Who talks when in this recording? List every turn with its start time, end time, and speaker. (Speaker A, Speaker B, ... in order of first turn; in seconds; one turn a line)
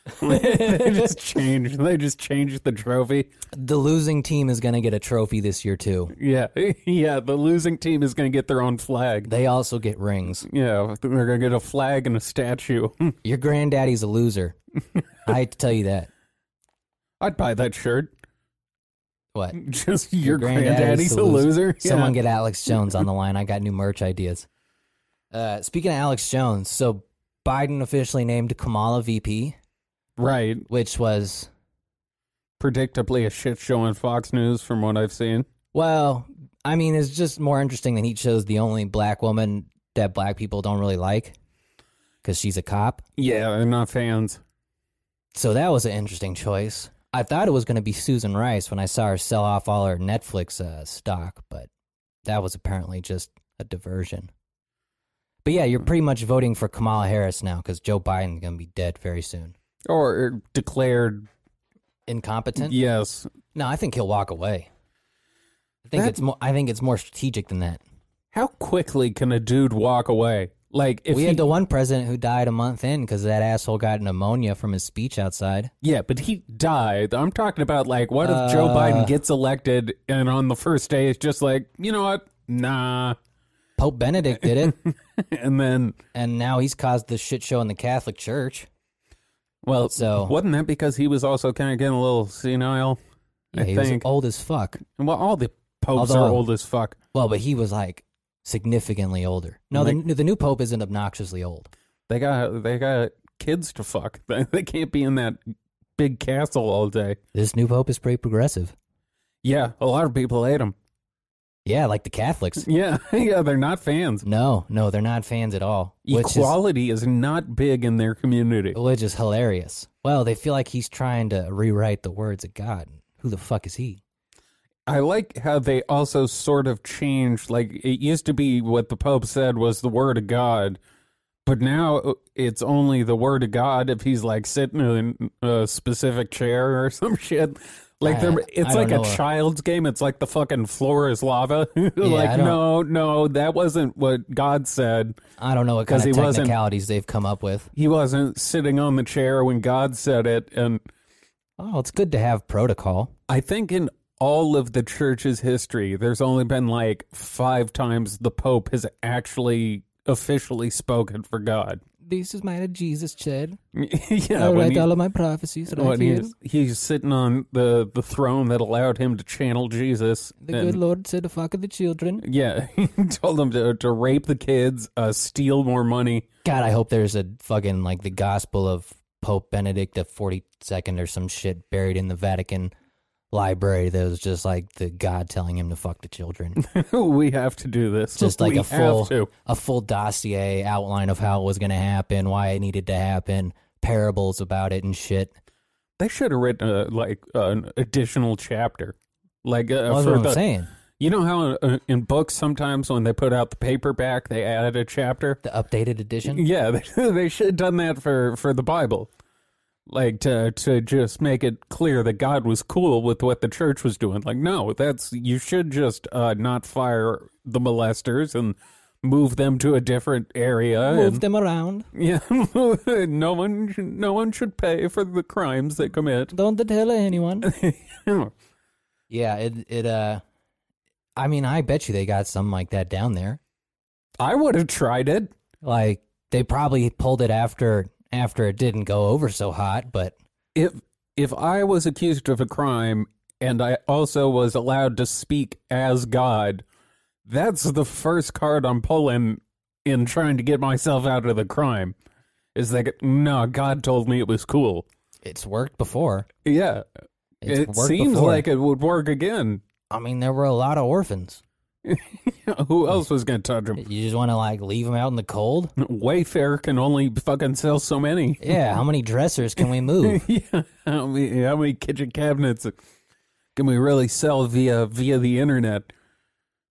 Speaker A: 0.1-3.3
Speaker B: 0.2-1.1
Speaker B: 3.5-6.1
Speaker A: 6.2-9.3
Speaker B: 9.3-10.5
Speaker A: 10.4-13.2
Speaker B: 13.2-14.6
Speaker B: 15.3-16.1
Speaker A: 17.2-18.1
Speaker A: 19.5-22.1
Speaker B: 20.2-24.5
Speaker B: 25.3-29.6
Speaker A: 30.2-30.7
Speaker B: 30.7-31.5
Speaker A: 32.6-35.5
Speaker B: 35.7-41.4
Speaker B: 42.2-43.0
Speaker A: 43.2-44.4
Speaker B: 45.3-51.7
Speaker B: 52.2-54.3
Speaker B: 55.5-59.5
Speaker A: 59.9-61.3
Speaker B: 62.1-62.8
Speaker A: 62.6-63.3
Speaker B: 63.5-64.7
Speaker B: 65.8-67.8
Speaker A: 68.3-71.5
Speaker B: 71.1-75.7
Speaker A: 75.8-83.2
Speaker B: 78.2-79.2
Speaker B: 83.8-84.8
Speaker A: 84.5-86.0
Speaker B: 86.1-88.7
Speaker A: 89.6-93.0
Speaker B: 89.9-90.3
Speaker A: 93.5-94.1
Speaker B: 93.5-94.8
Speaker A: 94.8-97.0
Speaker B: 96.0-96.4
Speaker B: 97.1-101.7
Speaker A: 102.1-105.4
Speaker A: 106.0-107.2
Speaker B: 107.3-108.8
Speaker A: 109.4-110.8
Speaker B: 111.7-112.7
Speaker A: 112.6-114.2
Speaker B: 114.2-116.5
Speaker A: 116.1-118.8
Speaker B: 118.7-124.0
Speaker A: 124.9-130.8
Speaker A: 131.5-145.2
Speaker B: 138.0-139.2
Speaker B: 142.0-142.6
Speaker B: 145.4-147.7
Speaker A: 145.9-146.6
Speaker A: 147.8-150.8
Speaker B: 151.6-153.1
Speaker A: 153.3-161.8
Speaker B: 162.0-163.6
Speaker A: 163.8-164.9
Speaker B: 164.4-166.3
Speaker A: 165.7-170.8
Speaker B: 170.4-172.2
Speaker A: 172.2-176.2
Speaker B: 176.4-182.7
Speaker B: 183.3-186.6
Speaker A: 186.6-189.3
Speaker B: 188.2-195.3
Speaker A: 196.0-200.4
Speaker B: 199.9-200.7
Speaker A: 201.0-205.4
Speaker B: 205.4-206.4
Speaker A: 206.3-209.1
Speaker A: 209.9-221.2
Speaker B: 220.9-221.9
Speaker A: 221.9-226.3
Speaker B: 226.3-227.5
Speaker A: 227.4-228.3
Speaker B: 229.1-230.2
Speaker B: 231.2-233.4
Speaker A: 234.2-235.3
Speaker B: 235.6-240.2
Speaker A: 240.6-246.6
Speaker A: 247.3-251.9
Speaker A: 252.6-254.9
Speaker B: 255.2-256.3
Speaker A: 256.4-256.9
Speaker B: 257.4-258.5
Speaker A: 257.4-259.6
Speaker B: 259.9-261.4
Speaker A: 261.9-263.8
Speaker B: 263.8-265.7
Speaker A: 265.8-268.6
Speaker B: 268.4-270.2
Speaker A: 270.0-272.7
Speaker A: 273.6-275.9